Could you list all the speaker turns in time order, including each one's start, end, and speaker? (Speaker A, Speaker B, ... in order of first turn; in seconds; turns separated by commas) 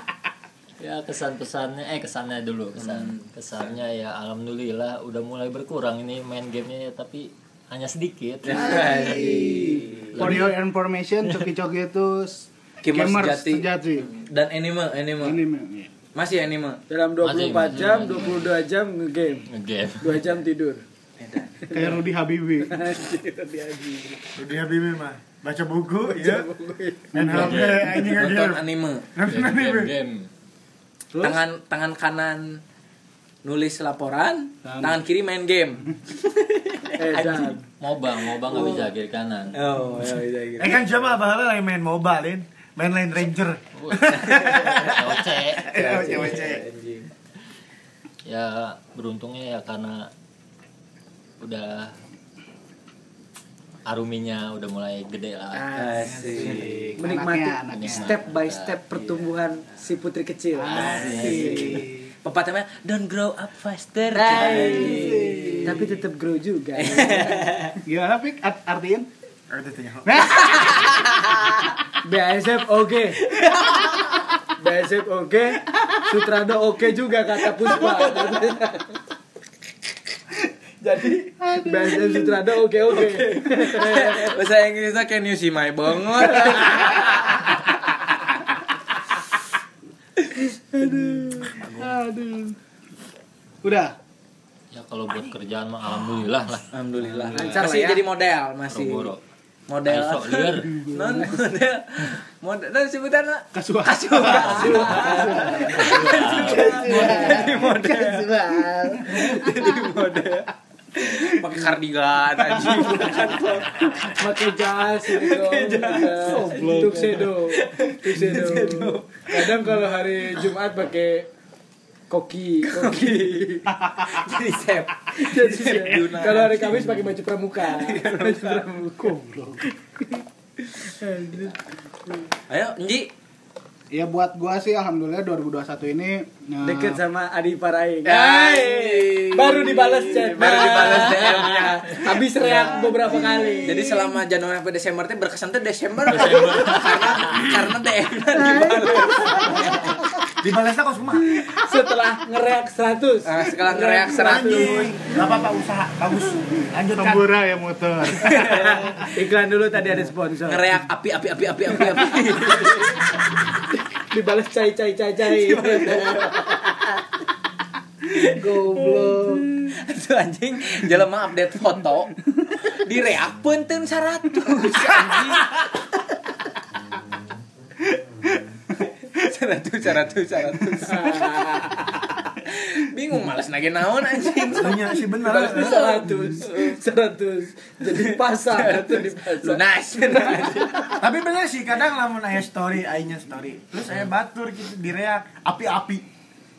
Speaker A: 0.8-9.1, Speaker B: 2.8-3.3, Speaker B: 8.4-10.5, Speaker C: 8.5-14.1, Speaker D: 9.0-9.7, Speaker A: 10.1-10.5, Speaker B: 12.8-15.4, Speaker C: 15.2-15.9, Speaker B: 16.1-16.8, Speaker D: 16.9-19.5, Speaker A: 17.2-18.5, Speaker A: 19.5-20.3, Speaker D: 20.0-20.8, Speaker B: 21.2-21.8, Speaker D: 21.6-22.0, Speaker C: 21.7-22.8, Speaker D: 22.6-24.2, Speaker E: 24.4-26.5, Speaker D: 26.1-27.5, Speaker C: 27.1-27.8, Speaker E: 27.1-28.6, Speaker A: 27.3-28.0, Speaker B: 28.1-29.1, Speaker E: 29.1-29.9, Speaker A: 29.3-30.3, Speaker C: 31.1-31.4, Speaker B: 31.2-32.6, Speaker B: 33.4-37.6, Speaker C: 34.6-35.0, Speaker D: 37.0-37.6, Speaker A: 37.8-39.8, Speaker B: 39.5-40.8, Speaker E: 40.6-46.6, Speaker A: 43.8-46.4, Speaker B: 44.3-44.9, Speaker B: 45.6-47.1, Speaker A: 48.3-50.1, Speaker A: 51.4-51.9, Speaker A: 53.9-56.9, Speaker B: 55.7-56.9, Speaker C: 55.9-58.1, Speaker D: 57.0-61.8, Speaker A: 57.7-59.3, Speaker C: 60.6-62.1, Speaker A: 60.7-61.9, Speaker B: 60.8-65.8, Speaker D: 64.2-67.5, Speaker C: 64.2-65.9, Speaker B: 66.8-67.8, Speaker C: 67.8-69.1, Speaker E: 69.5-70.5, Speaker C: 70.0-71.0, Speaker B: 70.4-71.7, Speaker D: 72.0-73.2, Speaker B: 73.2-74.3, Speaker D: 74.6-79.0, Speaker B: 77.8-78.3, Speaker D: 80.8-84.4, Speaker C: 81.4-82.4, Speaker B: 82.9-88.0, Speaker C: 90.8-92.6, Speaker D: 90.9-91.5, Speaker C: 93.6-94.0, Speaker A: 94.7-97.6, Speaker B: 96.7-99.1, Speaker D: 97.3-98.0, Speaker A: 98.7-99.2, Speaker B: 99.7-108.3, Speaker A: 99.9-100.9, Speaker C: 100.8-101.4, Speaker C: 103.5-109.5, Speaker D: 104.4-105.9, Speaker A: 105.6-107.1, Speaker D: 106.5-109.3, Speaker B: 109.0-114.3, Speaker C: 112.5-113.3, Speaker D: 114.2-121.3, Speaker B: 115.1-119.5, Speaker C: 116.1-117.3, Speaker D: 122.1-123.5, Speaker B: 122.7-127.1, Speaker C: 123.7-124.2, Speaker D: 125.1-132.2, Speaker B: 127.7-128.7, Speaker C: 129.1-129.6, Speaker B: 132.5-133.1, Speaker C: 133.9-137.0, Speaker D: 136.6-144.2, Speaker B: 138.1-149.9, Speaker C: 142.7-143.6, Speaker A: 146.1-147.5, Speaker D: 148.3-150.0, Speaker E: 150.4-151.4, Speaker D: 151.3-155.1, Speaker B: 153.2-154.9, Speaker E: 154.1-157.3, Speaker C: 156.9-159.1, Speaker B: 158.2-159.0, Speaker D: 158.4-160.7, Speaker B: 160.5-163.1, Speaker D: 164.0-166.7, Speaker B: 165.3-166.9, Speaker B: 168.1-176.1, Speaker D: 168.3-169.5, Speaker C: 169.0-169.4, Speaker C: 177.9-178.4, Speaker B: 178.8-181.7, Speaker D: 180.8-181.9, Speaker B: 182.4-186.8, Speaker E: 184.5-185.9, Speaker D: 184.9-190.9, Speaker B: 187.8-191.0, Speaker E: 191.0-196.0